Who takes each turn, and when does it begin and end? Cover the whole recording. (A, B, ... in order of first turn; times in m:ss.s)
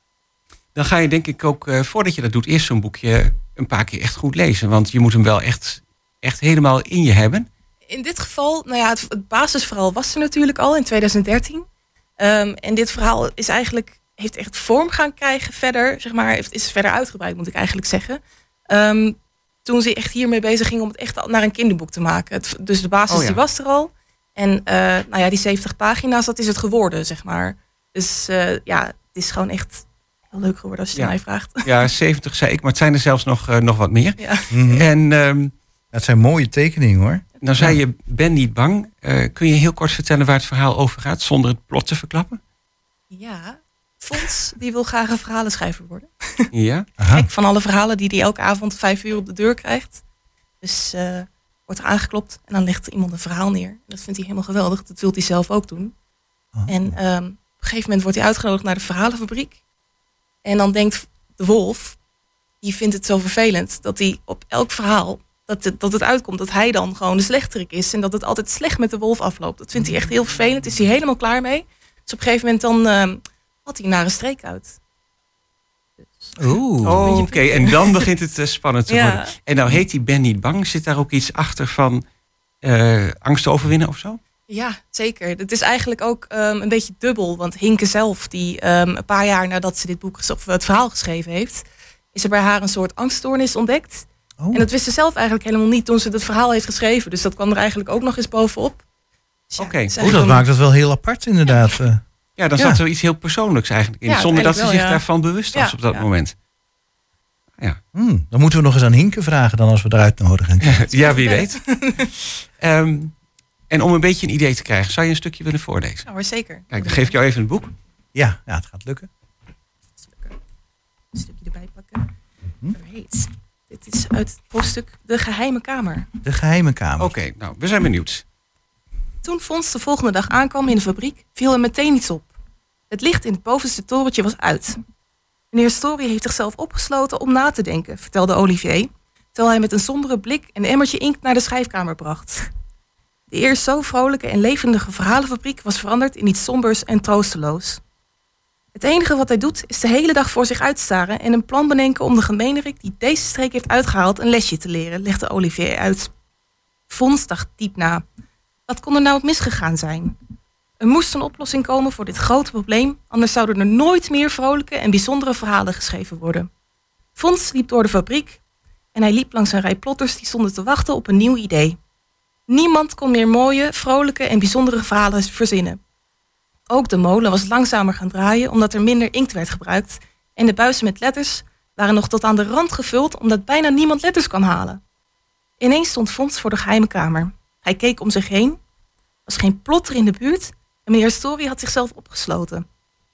0:00.7-0:07.5 A
0:07.9-0:11.7 B
0:12.2-0:31.7 B
0:23.1-0:23.4 A
0:30.9-0:35.5 A
0:34.2-0:34.4 B
0:34.5-0:34.9 C
0:35.9-0:37.8 C
0:37.4-0:42.4 A
0:43.1-0:46.5 B
0:46.5-0:46.9 A
0:47.0-0:47.2 C
0:47.1-0:50.0 B
0:50.6-0:55.9 B
0:56.5-0:57.0 C
0:56.7-0:59.6 B
1:00.4-1:02.0 B
1:02.6-1:14.8 B
1:16.4-1:17.1 C
1:16.8-1:22.0 A
1:17.0-1:18.1 B
1:18.9-1:19.3 B
1:22.6-1:24.2 A
1:24.5-1:38.8 B
1:34.4-1:34.6 C
1:39.5-1:40.4 B
1:39.6-1:39.9 A
1:40.0-1:42.0 C
1:42.4-1:46.3 A
1:42.5-1:42.8 C
1:44.1-1:46.0 B
1:47.9-1:50.9 C
1:50.6-1:52.0 A
1:50.9-1:52.1 B
1:52.6-1:53.1 A
1:53.7-1:56.1 A
1:56.0-1:57.2 B
1:56.7-1:57.7 A
1:58.1-1:59.1 C
2:00.0-2:00.4 B
2:01.1-2:02.1 B
2:02.7-2:06.1 B
2:06.2-2:07.1 C
2:07.0-2:08.2 A
2:09.2-2:12.3 B
2:12.9-2:14.8 B
2:15.5-2:22.5 B
2:23.3-2:27.8 B
2:28.7-2:36.1 B
2:36.9-2:38.0 B
2:38.7-2:40.1 B
2:40.8-2:46.5 B
2:47.2-2:48.4 B
2:48.9-2:51.8 B
2:52.5-2:55.8 B
2:56.7-3:04.8 B
3:05.6-3:08.6 B
3:09.2-3:12.6 B